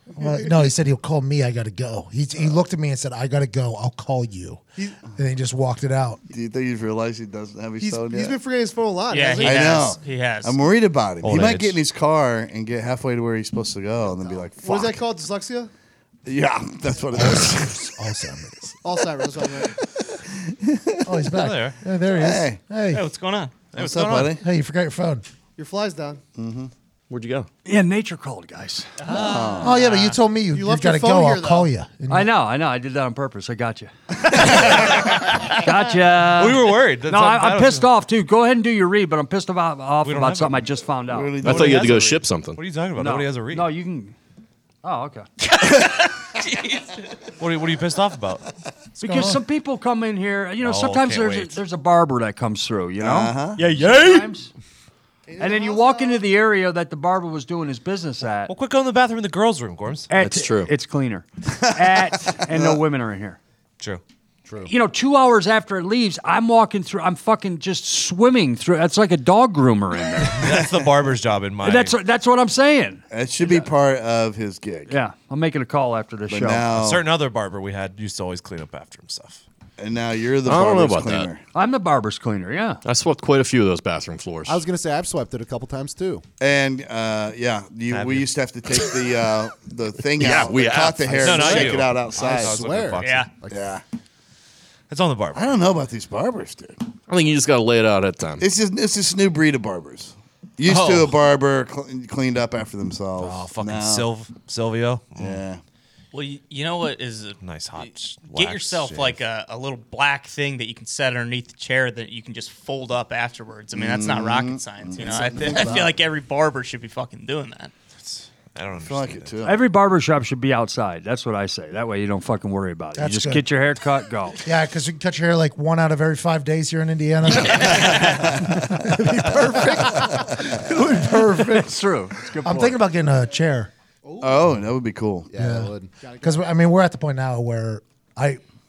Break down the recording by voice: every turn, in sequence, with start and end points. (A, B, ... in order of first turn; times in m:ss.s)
0:00.2-0:06.2 A
0:06.3-0:08.4 B
0:07.8-0:09.8 C
0:09.1-0:10.6 D
0:09.4-0:15.0 B
0:11.2-0:11.8 E
0:14.5-0:15.7 C
0:16.3-0:17.9 B
0:17.1-0:18.8 A
0:18.8-0:19.7 C
0:20.0-0:21.1 B
0:21.0-0:23.0 A
0:21.4-0:21.8 E
0:22.1-0:22.6 B
0:22.9-0:23.6 D
0:23.7-0:24.4 E
0:23.7-0:24.4 B
0:24.4-0:25.2 A
0:25.6-0:26.2 C
0:26.4-0:26.7 B
0:27.1-0:27.5 F
0:27.7-0:28.9 G
0:29.0-0:29.6 C
0:29.1-0:29.7 B
0:29.6-0:30.2 D
0:29.6-0:32.3 A
0:30.5-0:31.7 C
0:32.1-0:41.7 G
0:36.4-0:37.9 E
0:40.0-0:40.7 E
0:41.1-0:42.1 B
0:41.4-0:42.6 F
0:41.4-0:43.7 E
0:43.0-0:44.2 G
0:44.8-0:45.3 G
0:47.4-0:48.4 E
0:49.0-0:54.5 G
0:49.0-0:49.4 A
0:50.6-0:51.6 E
0:53.0-0:53.6 B
0:55.3-0:56.2 C
0:55.4-0:58.5 G
0:58.5-1:00.1 E
1:00.1-1:03.4 G
1:00.2-1:00.7 F
1:01.5-1:01.8 B
1:02.5-1:02.8 B
1:04.7-1:10.6 G
1:10.3-1:12.0 E
1:11.6-1:13.6 G
1:13.1-1:15.0 B
1:14.9-1:16.7 G
1:16.3-1:17.0 B
1:16.8-1:19.4 E
1:19.8-1:21.4 B
1:20.4-1:21.3 F
1:21.5-1:22.8 G
1:22.8-1:24.6 F
1:24.5-1:26.2 H
1:26.4-1:32.6 B
1:27.9-1:28.3 E
1:30.2-1:31.5 F
1:31.1-1:33.6 H
1:31.2-1:33.3 E
1:33.0-1:33.3 D
1:33.5-1:33.8 B
1:34.9-1:35.4 E
1:35.3-1:36.8 B
1:37.1-1:38.4 F
1:38.4-1:44.1 B
1:40.6-1:41.2 E
1:43.2-1:45.4 E
1:45.2-1:45.6 B
1:46.1-1:57.7 D
1:47.4-1:49.1 E
1:53.7-1:55.9 B
1:58.0-1:59.3 E
1:58.8-1:59.6 B
1:59.4-2:04.4 G
2:03.0-2:03.4 A
2:04.4-2:11.8 A
2:07.6-2:08.2 B
2:10.9-2:12.8 G
2:12.3-2:13.7 A
2:14.0-2:14.4 C
2:14.2-2:15.3 B
2:15.3-2:16.0 H
2:15.4-2:18.4 A
2:16.0-2:16.4 C